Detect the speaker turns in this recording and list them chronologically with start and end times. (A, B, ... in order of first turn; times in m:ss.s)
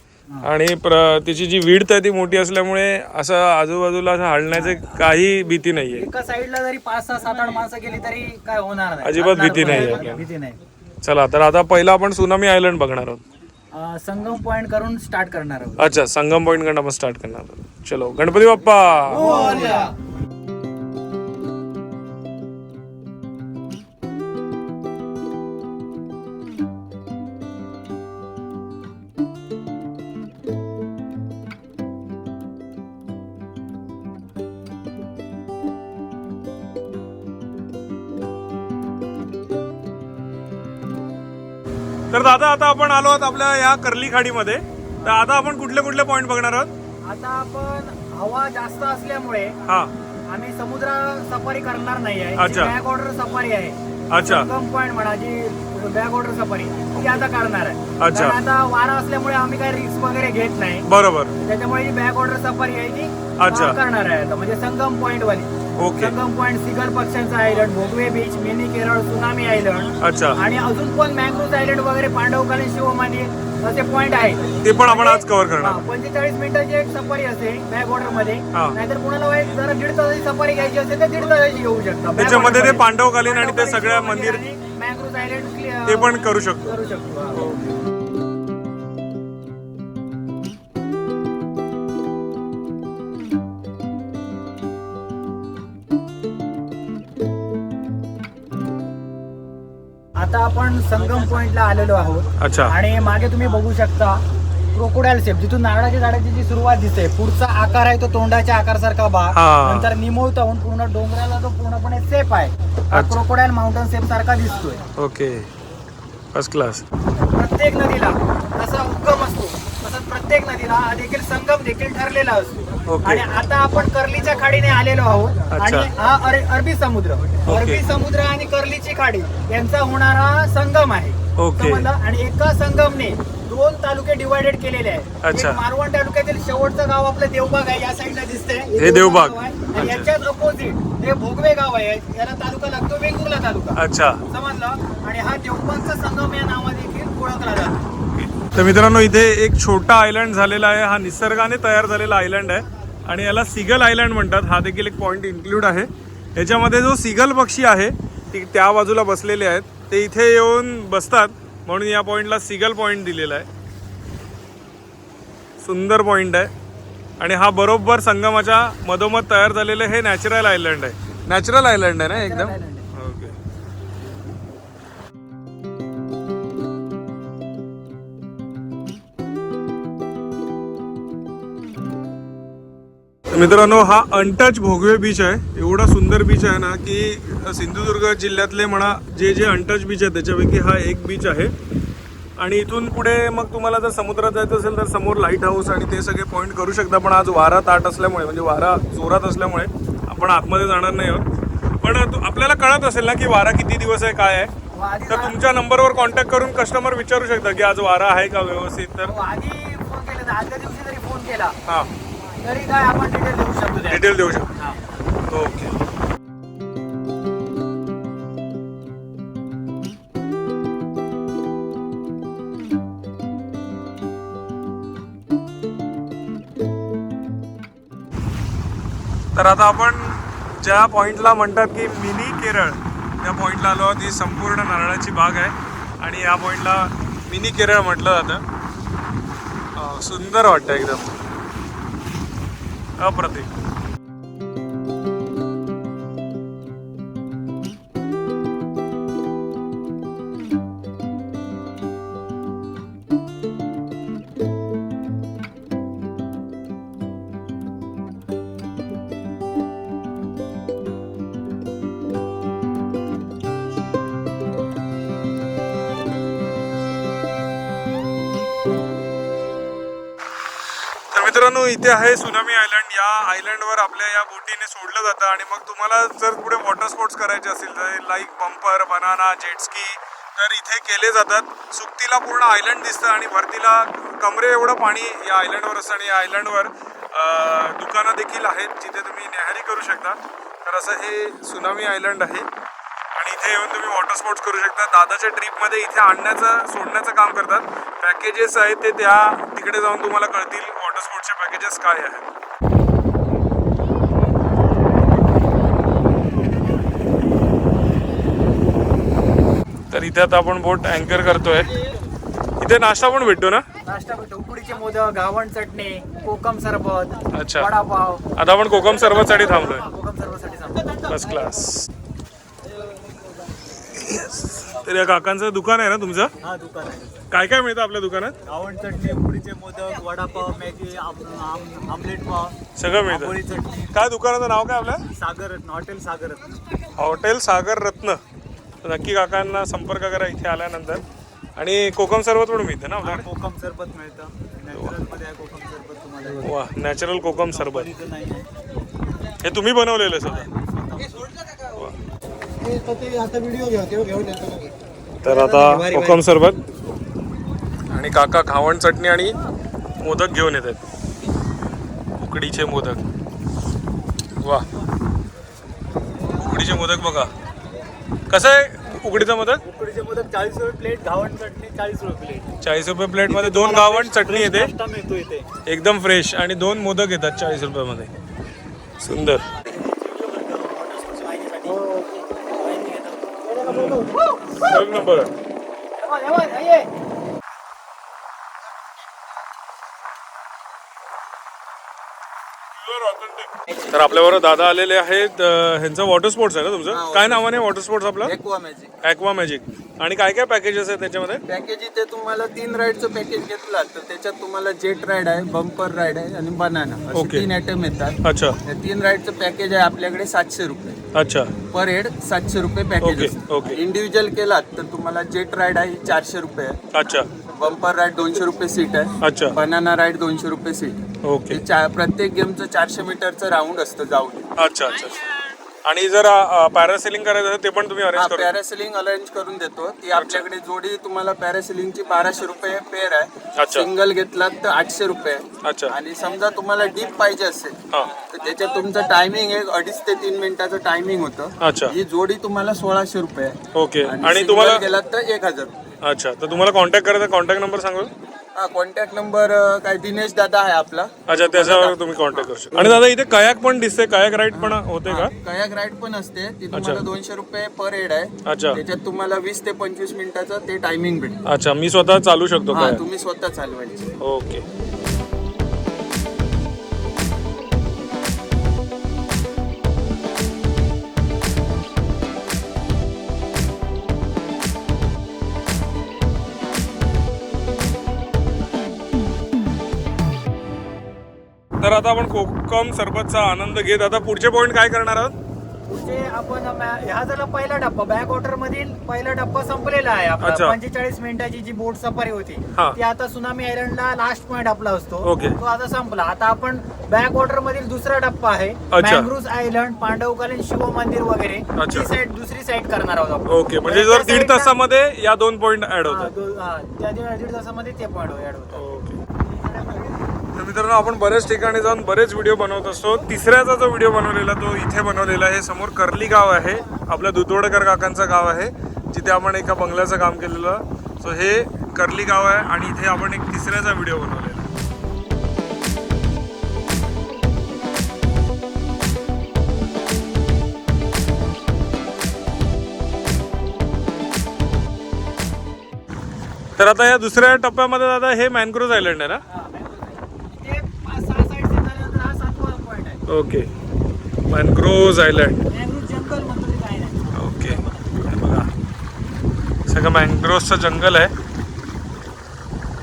0:00.4-0:06.0 A
0:04.5-0:05.0 B
0:05.9-0:10.6 B
0:09.0-0:10.2 A
0:11.0-0:13.2 A
0:13.7-0:16.0 B
0:15.8-0:19.7 A
0:19.1-0:19.9 B
0:42.1-0:46.7 A
0:47.0-0:49.6 B
0:49.7-0:49.9 A
0:50.3-1:00.8 B
0:52.4-0:52.7 A
0:54.1-0:54.5 A
0:57.0-0:57.2 A
0:58.0-0:58.4 A
1:00.8-1:01.4 A
1:01.4-1:27.4 B
1:03.4-1:03.8 A
1:05.8-1:06.1 A
1:10.0-1:10.4 A
1:14.6-1:15.8 A
1:22.2-1:24.4 A
1:25.9-1:26.7 A
1:27.3-1:27.6 A
1:40.2-1:44.2 B
1:42.4-1:42.7 A
1:44.7-1:54.8 B
1:49.3-1:49.9 A
1:52.9-1:53.2 A
1:55.0-1:55.5 A
1:56.3-1:56.8 A
1:57.3-2:27.8 B
2:02.9-2:03.3 A
2:05.5-2:05.9 A
2:07.4-2:07.8 A
2:11.4-2:11.9 A
2:15.2-2:15.6 A
2:18.8-2:20.1 A
2:23.8-2:24.2 A
2:28.1-2:43.5 A
2:45.6-2:46.5 A
2:47.2-2:53.4 A
2:52.1-2:52.9 B
3:03.3-3:11.5 A
3:12.4-3:21.3 A
3:21.8-3:24.5 A
3:24.7-3:25.4 B
3:25.1-3:29.1 A
3:29.0-3:31.6 B
3:32.4-3:34.8 B
3:33.9-3:34.5 A
3:35.3-3:35.7 A
3:49.3-3:58.4 A
3:59.8-4:01.1 A
4:03.0-4:03.5 A
4:31.1-4:52.5 A
4:53.1-5:02.3 A
5:09.9-5:11.7 A
5:12.6-5:13.6 A
5:13.8-5:21.1 B
5:17.3-5:17.7 A
5:18.3-5:19.8 A
5:21.1-5:21.9 A
5:23.9-5:26.3 A
5:26.4-5:27.2 B
5:27.3-5:28.3 A
5:28.5-5:32.6 B
5:32.8-5:35.0 A
5:33.1-5:33.8 B
5:35.1-5:36.6 B
5:37.0-5:38.2 A
5:38.8-5:41.0 A
5:41.6-5:43.2 A
5:43.0-5:46.5 B
5:46.4-5:47.9 A
5:47.5-5:48.5 B
5:49.4-5:50.5 A
5:50.2-5:51.2 B
5:52.6-5:54.6 B
5:55.2-5:56.6 A
5:55.2-5:56.2 B
5:57.9-5:59.4 A
6:00.0-6:00.8 A
6:02.2-6:03.0 A
6:04.4-6:04.6 A
6:06.3-6:07.3 A
6:08.3-6:09.6 A
6:09.6-6:12.5 B
6:12.6-6:14.7 A
6:13.2-6:15.5 B
6:15.6-6:18.1 A
6:19.0-6:19.4 A
6:19.7-6:24.7 B
6:23.6-6:24.1 A
6:24.6-6:25.3 A
6:26.0-6:26.9 B
6:32.8-6:38.3 A
6:36.9-6:38.9 C
6:39.0-6:41.4 A
6:41.5-6:51.0 C
6:47.1-6:47.5 A
6:48.2-6:48.6 A
6:51.1-6:51.5 A
6:51.7-6:56.8 C
6:53.0-6:53.8 A
6:56.9-6:57.3 A
6:57.5-7:04.5 C
6:59.2-6:59.6 A
7:01.2-7:01.6 A
7:04.6-7:08.5 A
7:08.1-7:25.8 C
7:10.1-7:10.4 A
7:13.6-7:13.9 A
7:15.6-7:16.0 A
7:21.6-7:22.0 A
7:23.7-7:24.8 A
7:26.0-7:28.1 A
7:28.5-7:33.0 C
7:31.3-7:35.3 A
7:34.5-7:41.4 C
7:36.7-7:37.0 A
7:38.4-7:38.8 A
7:41.4-7:43.0 A
7:42.7-7:44.1 C
7:44.2-7:44.6 A
8:01.8-8:05.3 A
8:05.9-8:24.7 B
8:10.4-8:10.8 A
8:15.2-8:15.6 A
8:18.9-8:19.3 A
8:21.8-8:22.1 A
8:23.5-8:26.3 A
8:26.0-8:28.8 B
8:28.7-8:29.2 A
8:29.8-8:30.1 B
8:30.5-8:44.7 A
8:56.8-8:59.4 A
8:59.5-9:03.2 B
9:03.3-9:03.7 A
9:04.5-9:05.6 A
9:05.7-9:08.2 B
9:07.3-9:08.7 A
9:09.9-9:11.3 A